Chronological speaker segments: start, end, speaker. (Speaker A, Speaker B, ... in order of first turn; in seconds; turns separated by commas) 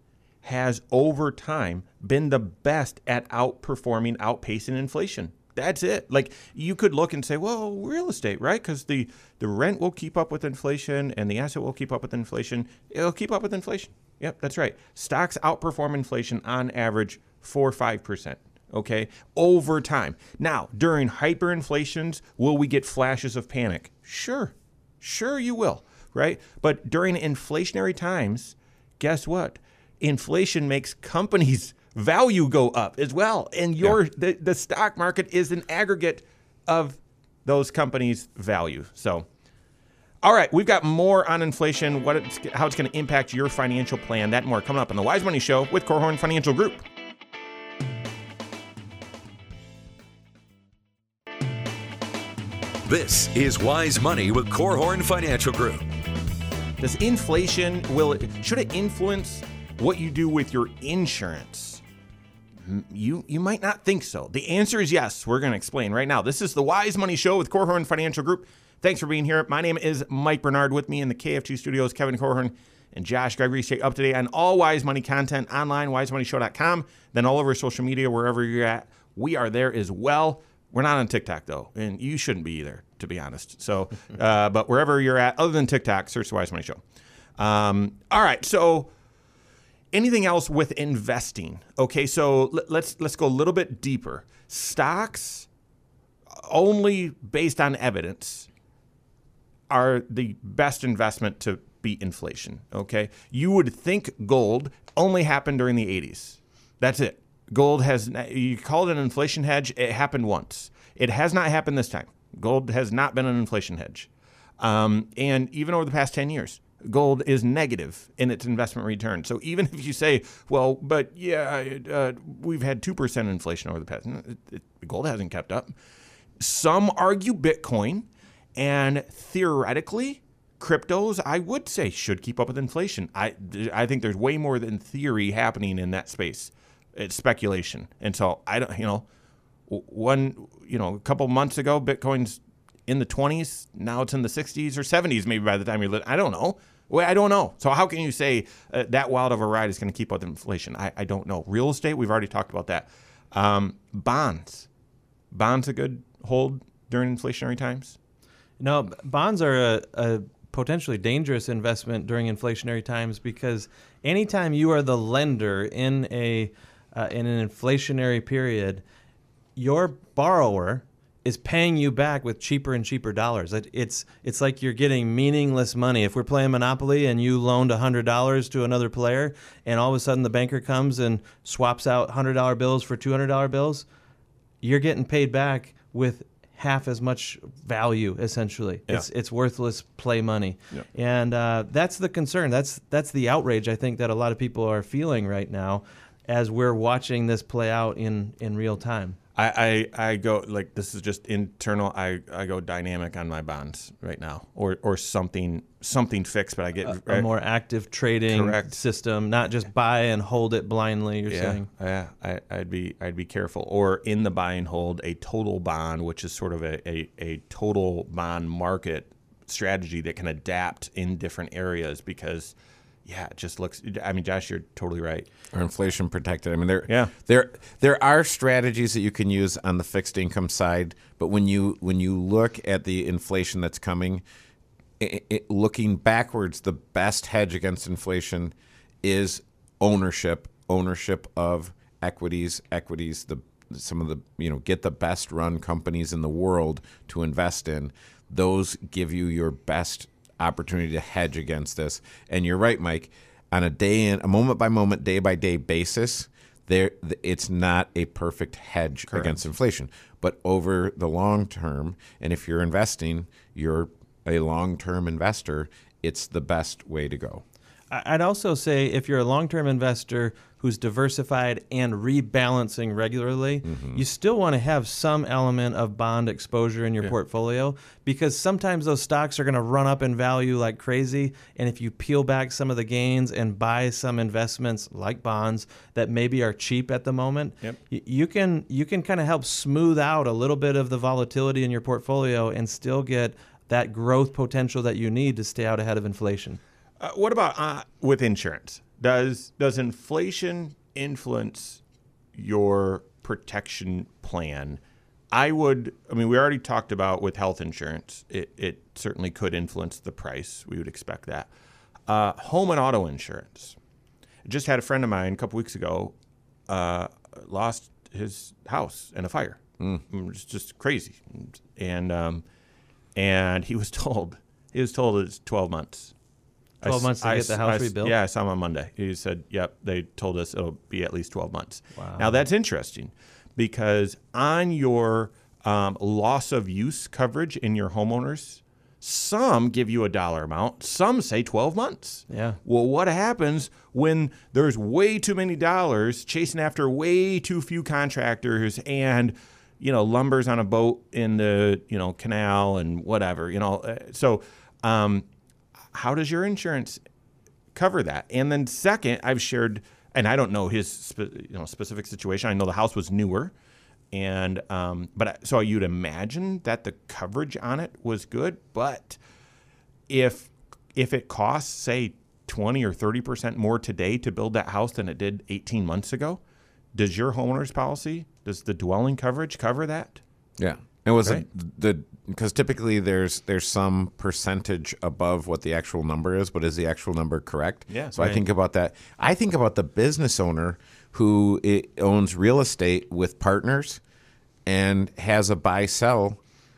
Speaker A: 0.4-39.2, Speaker A: 40.2-46.8, Speaker B: 52.9-55.9, Speaker A: 56.8-61.8, Speaker A: 62.6-86.8, Speaker A: 87.4-88.9, Speaker A: 89.9-95.5, Speaker A: 96.3-98.5, Speaker A: 99.7-125.7, Speaker A: 126.4-139.1, Speaker A: 139.7-154.7, Speaker A: 155.3-158.0, Speaker C: 158.6-168.8, Speaker C: 169.6-183.8, Speaker C: 184.6-199.2, Speaker A: 199.3-207.3, Speaker C: 206.8-211.7, Speaker A: 208.3-208.7, Speaker A: 211.3-222.5, Speaker A: 223.0-225.3, Speaker D: 225.5-234.2, Speaker A: 226.9-227.1, Speaker D: 235.0-267.4, Speaker C: 267.9-296.6, Speaker D: 273.6-274.0, Speaker A: 297.0-301.8, Speaker A: 302.3-304.8, Speaker A: 305.3-311.5, Speaker A: 312.1-313.8, Speaker A: 314.4-316.1, Speaker A: 316.7-322.4, Speaker A: 323.1-326.1, Speaker A: 326.8-355.2, Speaker C: 326.8-328.1, Speaker C: 332.0-332.4, Speaker C: 342.3-342.6, Speaker A: 355.9-357.0, Speaker A: 357.7-363.5, Speaker A: 364.1-369.2, Speaker A: 370.1-376.4, Speaker A: 376.9-380.2, Speaker D: 380.6-394.0, Speaker A: 387.9-388.4, Speaker D: 394.6-396.4